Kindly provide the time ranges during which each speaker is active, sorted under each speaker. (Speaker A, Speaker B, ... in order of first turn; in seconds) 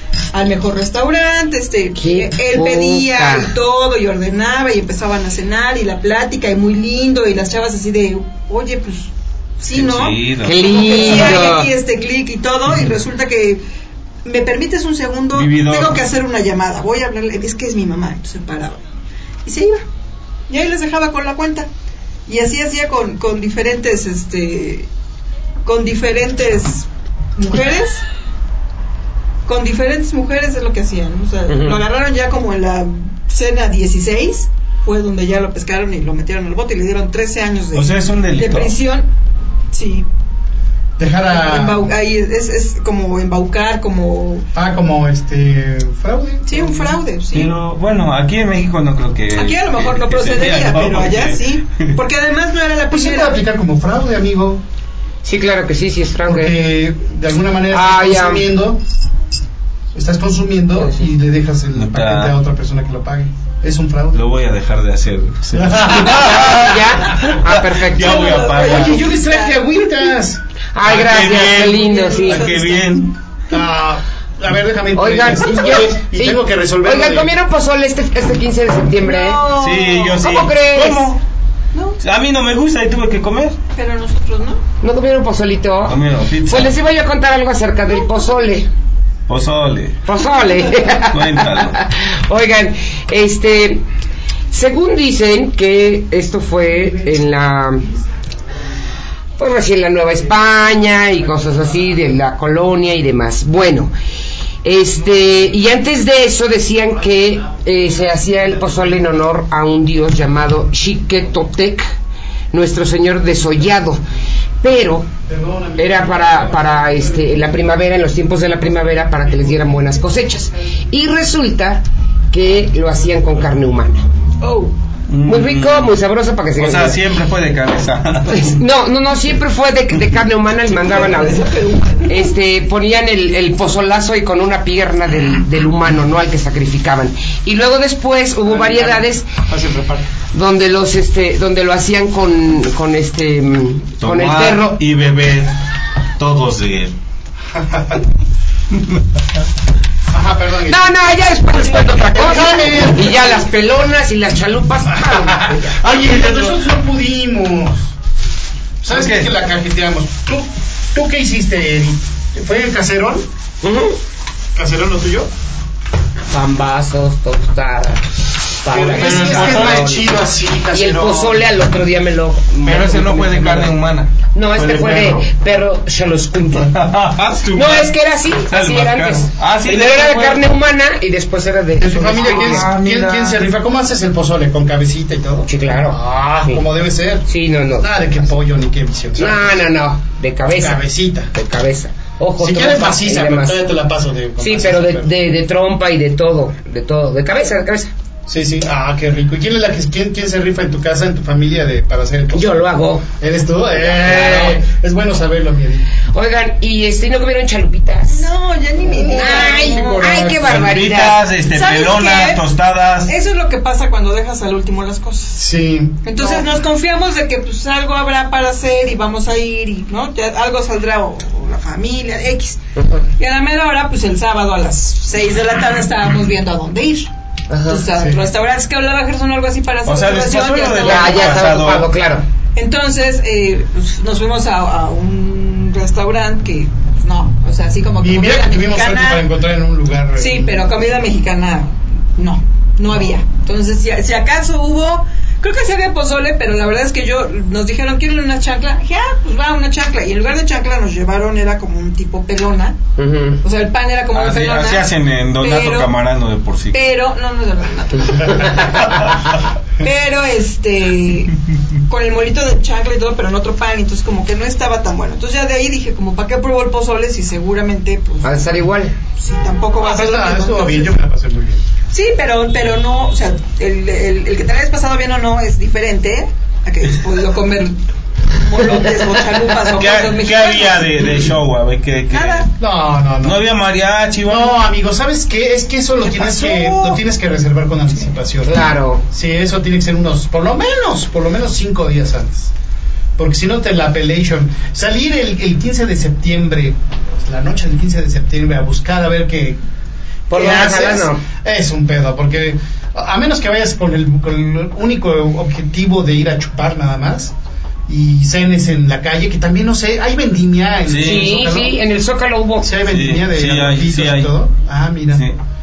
Speaker A: 0.3-13.6, 14.2-18.8, 19.4-19.8, 20.5-21.7, 22.3-24.9, 25.6-28.0, 29.4-39.1, 39.7-40.0, 41.3-44.5, 46.5-47.5, 49.3-53.3, 67.9-69.9, 71.3-73.0, 79.0-80.2, 81.7-82.0, 83.7-84.6, 124.4-124.7, 130.9-132.3, 208.1-210.1, 211.5-212.4, 213.0-215.4, 216.0-222.6, 223.2-227.1, 227.7-231.5, 232.6-239.2, 240.2-252.8, 253.4-255.9, 256.7-259.0, 259.8-261.4, 261.9-268.5, 269.2-270.9, 271.9-277.8, 278.3-281.1, 282.1-282.4, 286.0-287.0
Speaker B: 2.0-3.5, 10.4-11.7, 31.5-31.8, 55.2-56.6, 57.7-58.5, 60.8-61.1, 66.0-68.4, 70.7-72.5, 74.9-79.4, 80.2-81.1, 84.8-88.7, 90.0-93.8, 94.5-97.9, 99.4-103.9, 104.6-111.9, 112.5-114.0, 114.6-115.1, 115.8-124.0, 125.2-127.0, 128.3-139.3, 140.3-144.8, 150.7-155.8, 163.6-164.0, 166.3-168.0, 168.6-170.1, 170.7-173.8, 174.3-176.8, 177.5-182.7, 185.5-186.6, 187.3-187.9, 189.2-193.6, 194.4-197.9, 202.3-203.0, 203.8-204.6, 206.1-208.3, 209.0-211.2, 222.8-223.0, 227.5-227.8, 230.8-232.2, 253.0-253.4, 268.2-268.9, 288.4-289.0, 300.3-301.2, 311.0-312.7
Speaker C: 9.7-11.5, 15.3-16.0, 37.7-38.7, 47.3-51.9, 61.7-62.4, 64.1-69.0, 70.8-73.1, 79.5-81.2, 82.0-83.6, 85.8-86.7, 89.3-90.0, 91.1-91.8, 125.1-126.0, 126.6-128.6, 144.0-145.6, 146.2-146.9, 158.9-159.3, 168.8-170.1, 172.6-175.2, 176.6-177.9, 178.5-180.4, 182.1-183.4, 210.3-213.1, 229.8-231.9, 254.1-256.8, 258.8-259.2, 279.7-282.5, 283.2-284.6, 310.9-311.3, 312.9-314.3
Speaker D: 41.0-41.9, 44.5-47.0, 52.9-54.6, 56.2-58.8, 59.9-64.2, 65.5-66.6, 68.6-70.4, 73.5-77.3, 108.0-109.0, 115.2-117.6, 118.6-120.2, 138.4-140.1, 147.5-148.0, 150.1-151.0, 152.0-153.4, 154.9-157.9, 158.8-163.2, 164.5-165.3, 168.7-171.5, 181.8-189.7, 190.5-191.3, 192.4-195.1, 198.3-202.7, 203.2-205.8, 208.8-210.5, 215.3-216.2, 227.9-228.3, 238.0-240.8, 269.8-271.6, 282.6-283.4, 284.2-292.5, 293.2-299.6, 300.3-307.3, 307.9-311.8, 312.6-315.3